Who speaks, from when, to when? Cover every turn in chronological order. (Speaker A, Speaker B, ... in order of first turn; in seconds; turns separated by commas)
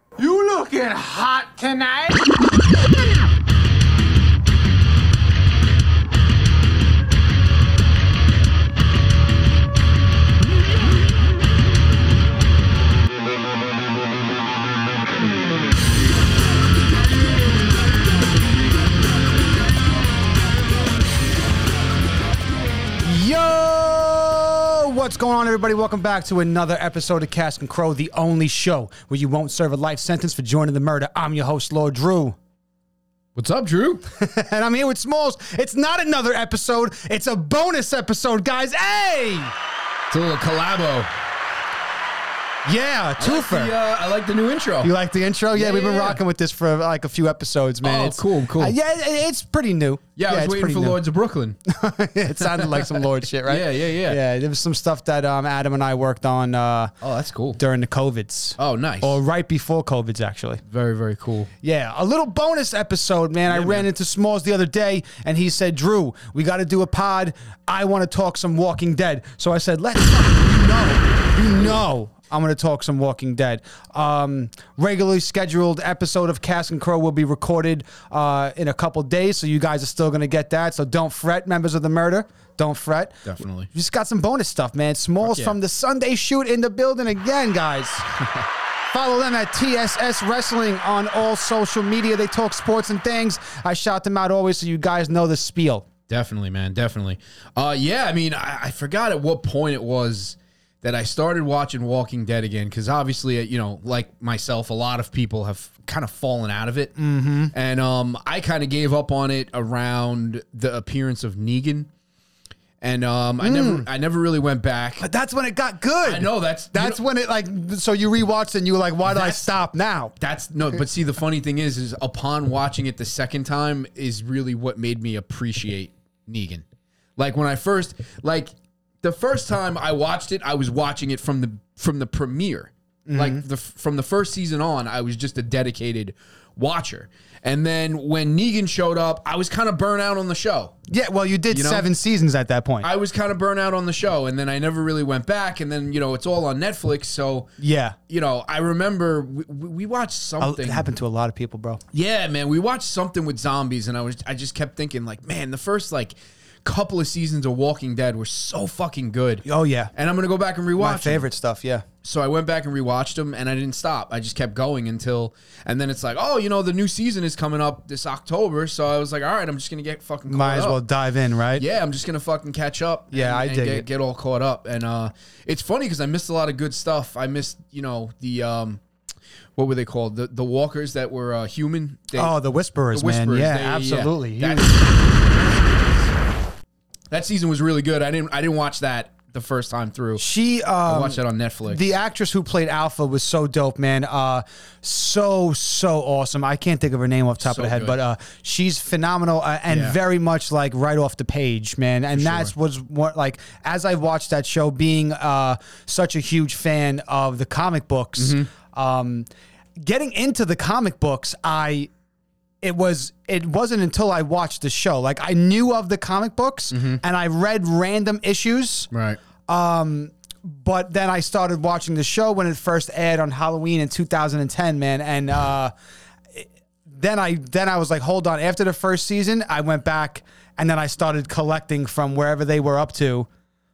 Speaker A: 0.2-2.2, Speaker B: 23.0-32.4, Speaker C: 33.4-34.0, Speaker B: 34.1-39.5, Speaker C: 40.1-41.1, Speaker B: 42.6-43.8, Speaker C: 43.2-45.0, Speaker B: 44.8-51.0, Speaker C: 45.5-46.2, Speaker C: 47.8-48.8, Speaker C: 50.2-51.6, Speaker B: 51.7-56.9, Speaker C: 52.4-54.2, Speaker C: 57.0-57.6, Speaker B: 57.6-60.6, Speaker C: 58.6-59.2, Speaker C: 60.7-61.5, Speaker B: 61.6-88.1, Speaker C: 63.5-63.9, Speaker C: 83.3-83.7, Speaker C: 85.2-85.6, Speaker B: 88.9-95.9, Speaker C: 96.1-107.0, Speaker B: 107.0-107.5, Speaker C: 107.5-111.9, Speaker C: 112.8-115.1, Speaker B: 113.4-113.9, Speaker B: 115.0-120.1, Speaker C: 116.0-117.0, Speaker C: 119.0-119.5, Speaker C: 120.2-126.7, Speaker C: 127.2-140.8, Speaker B: 133.1-133.4, Speaker B: 140.9-142.9, Speaker C: 141.5-141.9, Speaker C: 142.8-147.5, Speaker B: 147.6-148.0, Speaker C: 148.1-150.9, Speaker B: 150.4-151.8, Speaker C: 151.9-161.3, Speaker B: 159.4-159.9, Speaker B: 160.8-161.9, Speaker C: 162.0-170.8, Speaker B: 170.3-171.7, Speaker C: 171.6-178.8, Speaker B: 173.1-173.9, Speaker C: 179.6-182.3, Speaker B: 182.2-184.7, Speaker C: 182.9-186.2, Speaker C: 187.1-190.2, Speaker B: 190.2-211.9, Speaker C: 190.9-191.9, Speaker C: 197.4-198.0, Speaker C: 199.7-200.0, Speaker C: 202.1-202.5, Speaker C: 208.2-208.5, Speaker B: 212.6-218.9, Speaker C: 216.7-217.0, Speaker C: 218.9-219.2, Speaker B: 219.5-225.7, Speaker B: 226.3-233.3